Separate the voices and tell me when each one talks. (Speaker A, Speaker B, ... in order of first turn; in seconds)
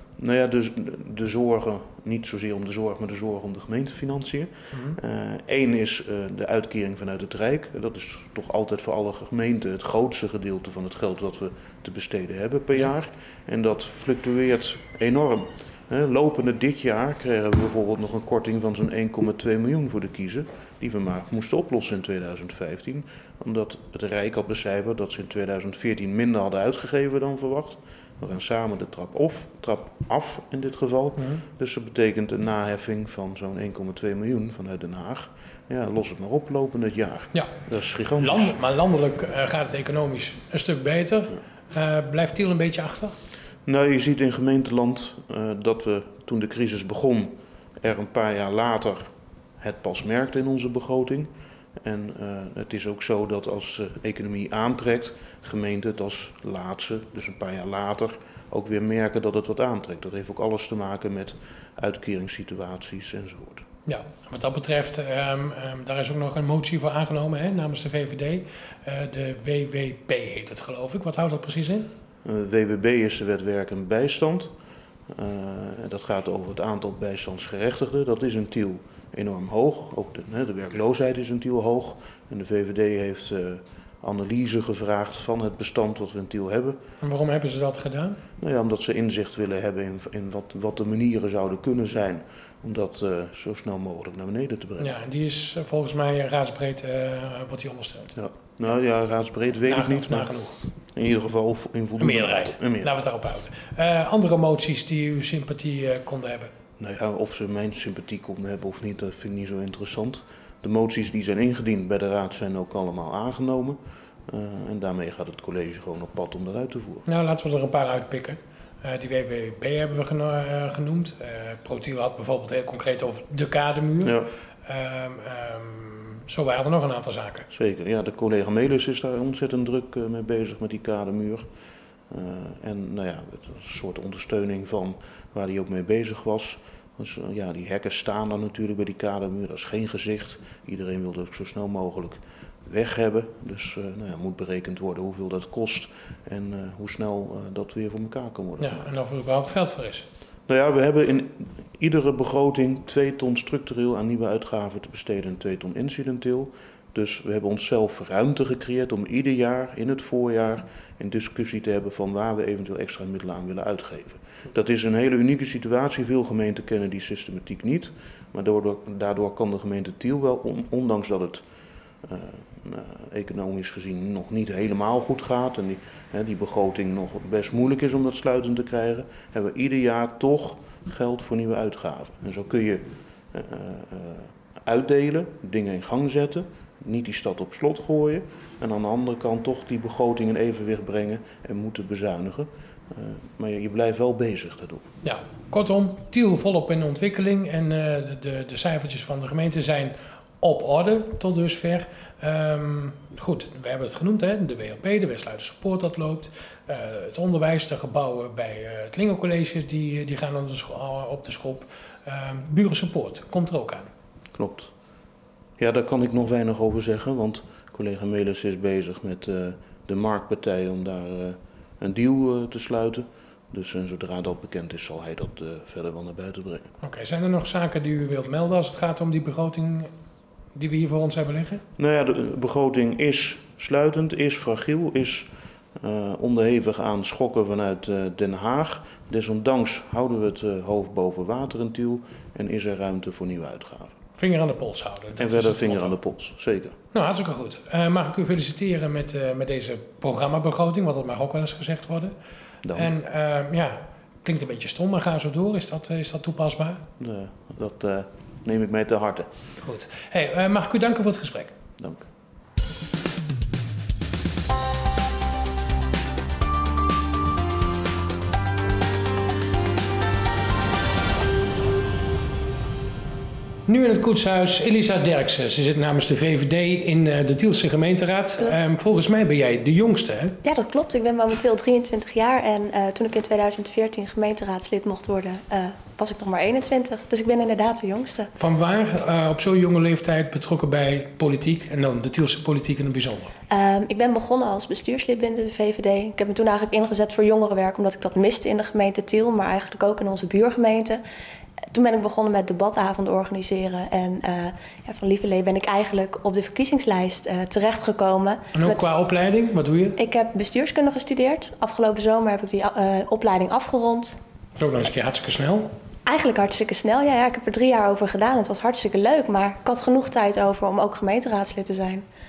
Speaker A: 0.2-38.6, 43.6-51.3, 51.8-63.6, 72.2-74.5, 75.1-86.8, 88.4-95.0, 98.2-100.4, 100.9-102.9, 106.8-117.0, 124.0-124.3, 127.5-131.4, 132.1-148.9, 150.5-171.4, 172.0-194.9, 214.3-214.7, 215.6-226.7, 231.8-244.0, 245.2-246.8, 252.6-252.9, 257.0-259.3, 261.8-262.1
Speaker B: 4.7-5.0, 38.2-43.1, 63.9-71.9, 87.0-88.2, 94.8-98.1, 99.7-100.6, 102.0-106.5, 117.0-127.5, 148.6-150.1, 195.0-213.9, 226.8-229.9, 230.5-231.6, 244.2-245.9, 246.9-252.1, 252.7-256.8, 259.6-261.5, 273.6-280.3, 288.4-293.3, 308.5-310.0, 314.6-315.7
Speaker C: 278.4-278.7, 280.4-288.3, 293.5-301.0, 301.7-308.9, 310.0-314.2, 316.1-322.0